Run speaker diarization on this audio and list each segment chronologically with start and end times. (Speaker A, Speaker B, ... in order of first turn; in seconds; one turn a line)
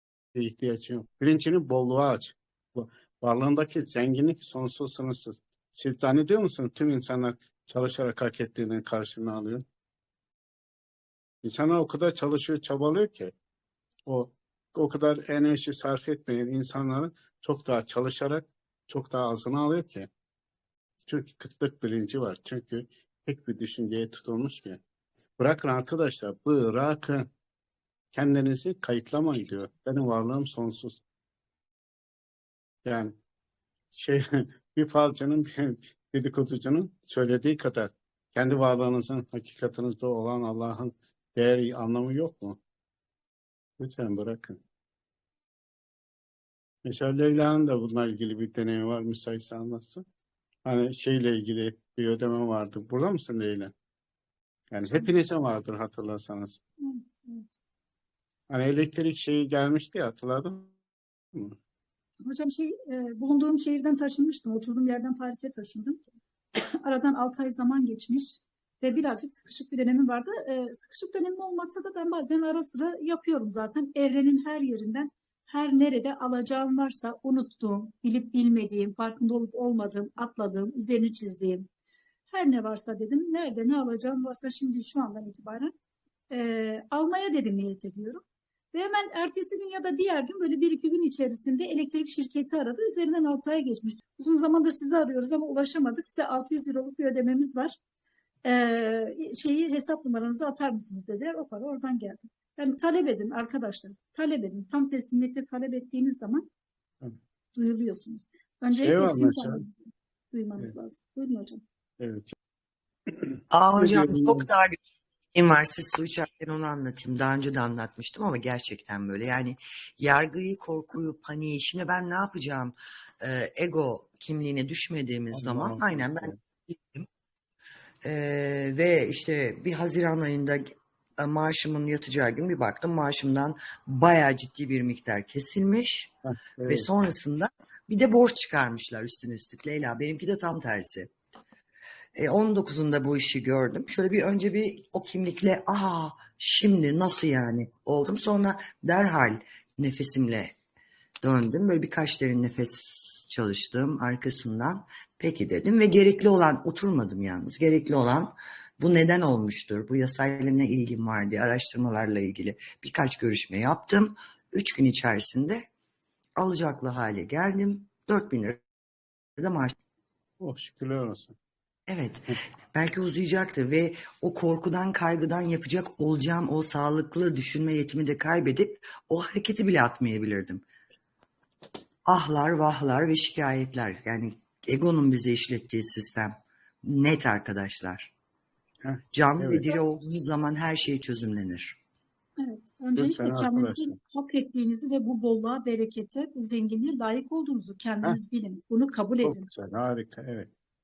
Speaker A: 0.3-9.6
Speaker A: 11.4-13.3
Speaker A: 14.1-20.1
Speaker A: 21.1-24.8
Speaker A: 25.4-27.3
Speaker A: 28.1-31.0
Speaker A: 32.8-33.1
Speaker A: 33.9-42.6
Speaker A: 43.8-44.6
Speaker A: 46.8-50.0
Speaker A: 50.6-53.7
Speaker A: 54.7-56.6
Speaker B: 56.8-57.5
Speaker A: 58.5-60.7
Speaker B: 62.2-66.0
Speaker B: 66.5-81.7
Speaker B: 82.3-85.7
Speaker B: 86.3-88.2
Speaker B: 88.7-97.8
Speaker B: 98.4-106.5
Speaker B: 107.5-111.6
Speaker A: 108.8-109.6
Speaker A: 112.0-112.3
Speaker A: 113.2-114.5
Speaker C: 113.5-114.8
Speaker C: 115.3-127.1
Speaker A: 125.3-126.4
Speaker C: 128.0-136.1
Speaker A: 136.2-136.9
Speaker C: 136.6-141.1
Speaker C: 142.1-150.5
Speaker C: 151.2-165.6
Speaker C: 166.4-168.6
Speaker C: 169.4-169.7
Speaker A: 170.4-171.3
Speaker C: 171.9-180.6
Speaker C: 182.1-188.1
Speaker A: 188.8-189.7
Speaker C: 189.1-191.8
Speaker B: 192.4-199.5
Speaker A: 192.9-193.9
Speaker A: 199.2-200.5